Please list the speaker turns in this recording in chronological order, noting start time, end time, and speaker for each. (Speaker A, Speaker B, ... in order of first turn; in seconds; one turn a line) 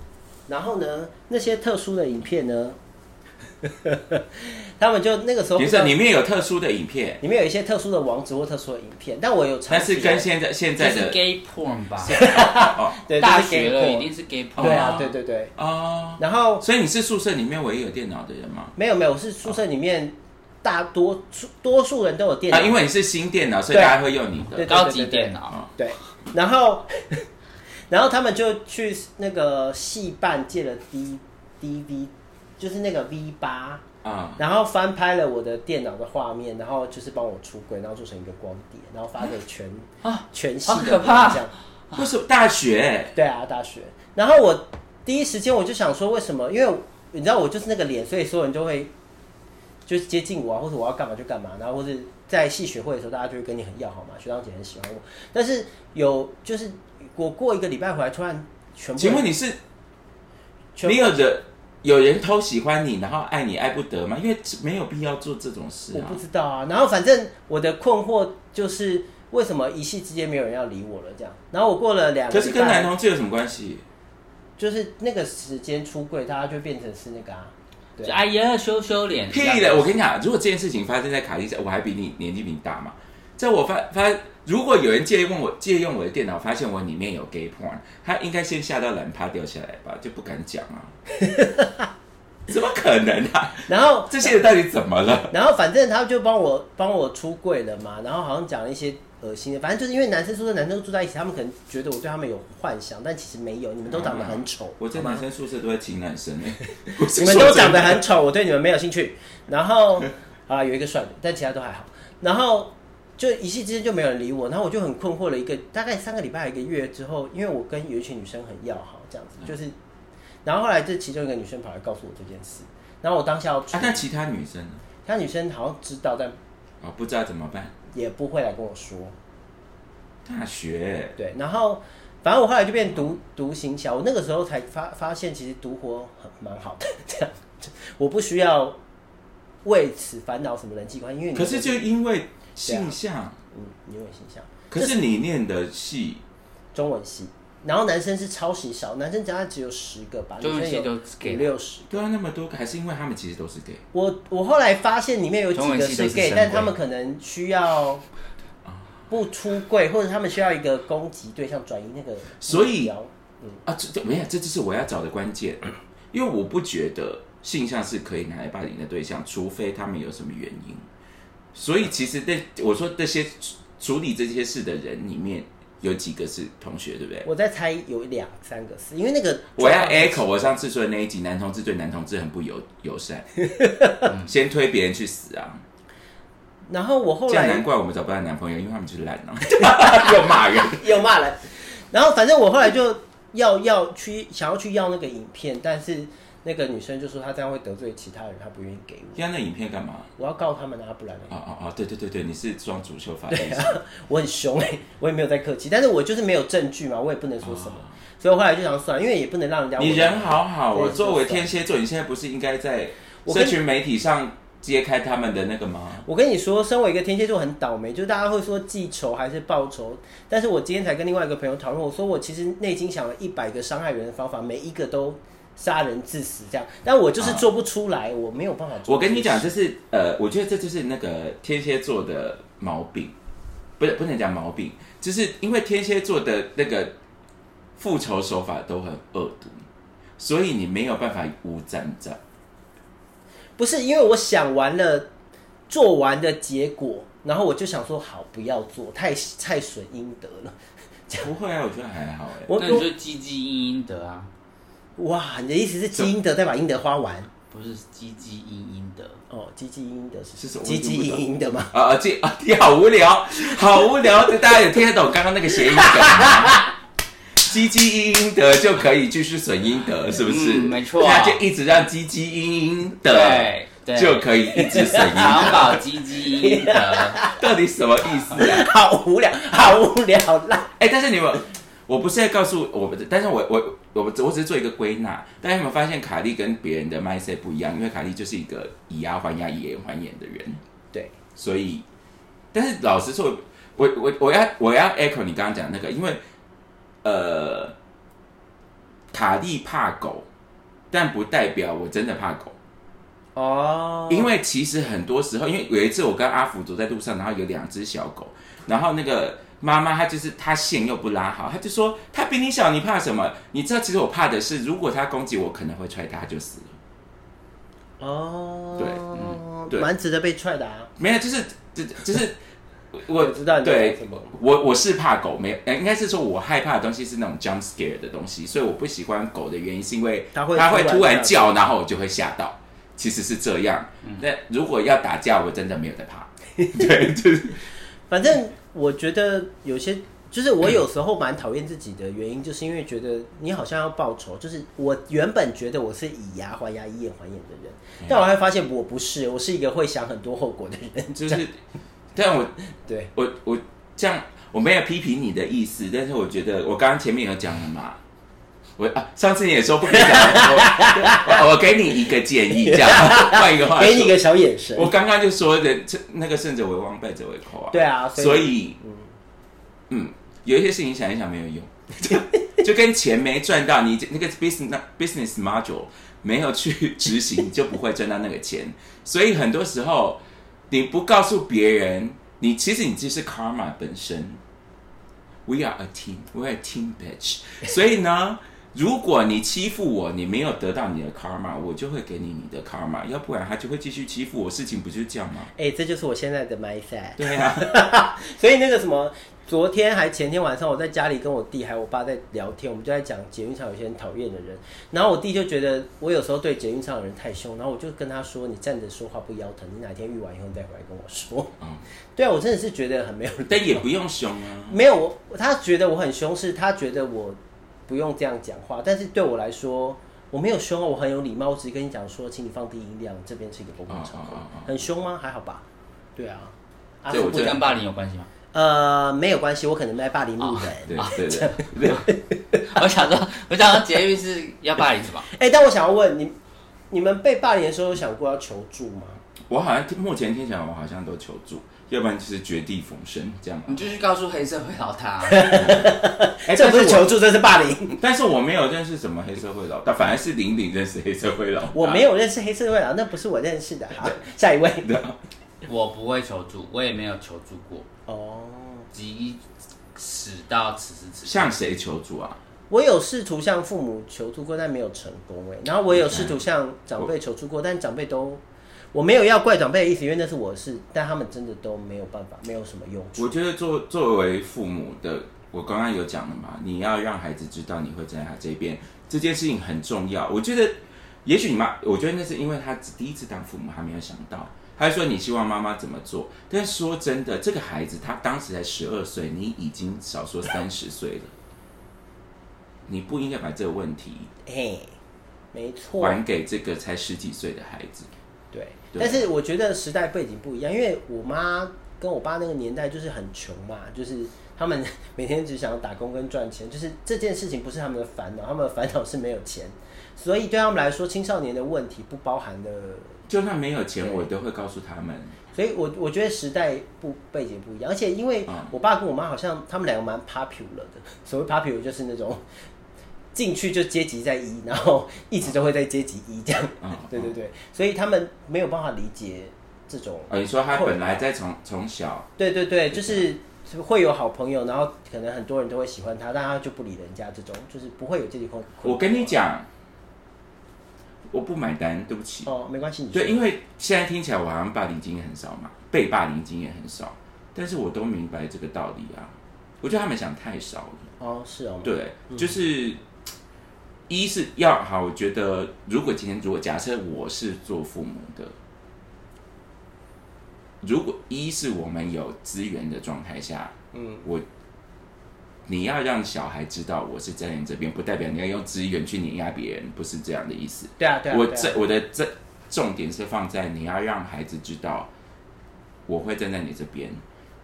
Speaker A: 0.5-2.8
Speaker A: 3.6-5.9
Speaker B: 5.6-7.2
Speaker A: 7.2-10.3
Speaker B: 9.7-11.2
Speaker C: 10.8-12.3
Speaker A: 12.1-15.5
Speaker B: 12.1-13.0
Speaker C: 13.2-15.1
Speaker B: 14.6-18.7
Speaker A: 16.2-16.6
Speaker A: 18.8-22.8
Speaker B: 22.5-24.7
Speaker A: 23.7-24.0
Speaker A: 24.5-27.2
Speaker C: 24.6-25.6
Speaker A: 27.9-33.8
Speaker B: 34.0-34.4
Speaker A: 34.4-41.5
Speaker C: 40.0-42.1
Speaker B: 41.9-43.1
Speaker A: 43.1-48.9
Speaker A: 49.9-59.3
Speaker B: 59.0-59.6
Speaker A: 60.8-61.2
Speaker B: 60.8-66.2
Speaker A: 65.9-72.9
Speaker B: 72.3-73.8
Speaker A: 74.6-78.2
Speaker C: 78.0-79.9
Speaker B: 79.3-90.9
Speaker A: 91.2-91.9
Speaker B: 92.5-95.3
Speaker A: 93.7-94.4
Speaker A: 95.3-105.2
Speaker B: 103.9-108.0
Speaker A: 106.9-119.7
Speaker A: 120.4-124.0
Speaker B: 123.7-124.8
Speaker A: 125.0-126.4
Speaker B: 126.8-127.7
Speaker A: 127.9-129.1
Speaker B: 130.2-131.2
Speaker A: 131.2-138.8
Speaker A: 139.6-141.8
Speaker B: 141.3-143.4
Speaker A: 142.6-142.9
Speaker A: 143.5-145.0
Speaker B: 144.7-146.2
Speaker A: 146.7-151.9
Speaker C: 150.4-151.5
Speaker B: 151.9-153.8
Speaker A: 153.9-158.0
Speaker C: 155.5-156.7
Speaker A: 159.1-163.6
Speaker B: 162.4-162.9
Speaker B: 163.7-170.8
Speaker B: 171.5-177.3
Speaker A: 177.2-180.2
Speaker B: 179.6-183.3
Speaker A: 183.5-184.1
Speaker B: 184.2-185.6
Speaker A: 186.7-187.6
Speaker B: 187.3-190.9
Speaker A: 189.5-199.2
Speaker B: 199.2-200.1
Speaker A: 200.2-201.3
Speaker B: 201.3-203.8
Speaker A: 203.3-211.5
Speaker B: 207.4-207.9
Speaker B: 209.8-216.0
Speaker A: 213.2-213.6
Speaker A: 216.0-229.5
Speaker B: 227.2-227.4
Speaker B: 228.8-233.1
Speaker B: 233.8-236.9
Speaker B: 237.8-239.6
Speaker B: 240.2-242.2
Speaker A: 243.6-245.1
Speaker A: 245.7-250.6
Speaker B: 251.2-252.8
Speaker A: 252.5-252.9
Speaker C: 252.6-254.3
Speaker A: 255.0-257.3
Speaker C: 257.5-259.2
Speaker A: 259.3-261.7
Speaker B: 260.4-266.6
Speaker A: 265.7-266.6
Speaker B: 267.4-275.8
Speaker C: 270.2-271.4
Speaker C: 273.1-274.3
Speaker A: 274.5-277.4
Speaker C: 275.0-277.2
Speaker B: 277.3-278.7
Speaker A: 278.3-280.7
Speaker B: 280.8-290.6
Speaker B: 291.3-291.8
Speaker B: 292.5-296.2
Speaker B: 297.0-297.8
Speaker B: 299.1-300.2
Speaker B: 300.9-302.5
Speaker A: 303.3-304.3
Speaker B: 304.1-316.8
Speaker A: 318.0-320.9
Speaker B: 318.8-319.0
Speaker B: 321.0-322.4
Speaker B: 322.9-337.6
Speaker A: 323.1-324.4
Speaker A: 330.3-331.5
Speaker A: 336.6-337.0
Speaker A: 338.1-351.4
Speaker B: 351.1-351.6
Speaker B: 352.1-352.6
Speaker A: 352.9-353.1
Speaker B: 353.1-358.0
Speaker B: 358.8-364.2
Speaker A: 359.9-361.4
Speaker A: 362.5-364.9
Speaker B: 364.7-368.8
Speaker A: 367.7-369.1
Speaker B: 369.9-384.4
Speaker B: 385.4-395.5
Speaker A: 395.6-411.5
Speaker B: 397.2-397.7
Speaker A: 412.1-413.9
Speaker B: 413.5-414.8
Speaker A: 414.7-425.6
Speaker B: 423.9-424.7
Speaker A: 426.1-427.7
Speaker C: 427.1-428.3
Speaker B: 427.1-427.6
Speaker A: 428.5-432.6
Speaker C: 430.4-431.2
Speaker B: 430.9-432.1
Speaker C: 432.6-435.3
Speaker A: 435.3-436.3
Speaker A: 436.9-439.2
Speaker B: 439.5-443.8
Speaker C: 443.7-445.6
Speaker A: 445.2-448.0
Speaker B: 445.6-445.9
Speaker B: 446.4-447.1
Speaker B: 448.0-452.1
Speaker A: 451.7-454.9
Speaker B: 454.8-455.2
Speaker C: 455.6-457.9
Speaker A: 458.1-458.9
Speaker C: 458.9-459.4
Speaker C: 459.9-461.5
Speaker B: 461.2-462.4
Speaker A: 462.7-468.4
Speaker B: 465.9-466.4
Speaker A: 468.9-473.3
Speaker B: 473.1-491.3
Speaker B: 492.9-494.3
Speaker A: 494.4-494.9
Speaker A: 495.5-496.2
Speaker B: 496.0-498.1
Speaker A: 498.5-513.2
Speaker B: 498.9-499.3
Speaker B: 513.3-515.3
Speaker A: 514.0-514.3
Speaker A: 515.5-522.4
Speaker B: 518.5-518.7
Speaker A: 523.3-531.2
Speaker B: 526.8-527.3
Speaker B: 530.3-532.3
Speaker A: 532.4-539.3
Speaker B: 532.9-533.2
Speaker B: 538.8-539.7
Speaker B: 541.3-542.5
Speaker A: 542.5-543.4
Speaker B: 543.1-551.1
Speaker A: 551.2-552.5
Speaker B: 551.8-553.0
Speaker B: 554.1-558.5
Speaker B: 560.8-563.7
Speaker A: 563.9-564.2
Speaker B: 565.7-575.1
Speaker A: 571.0-571.8
Speaker B: 576.1-577.2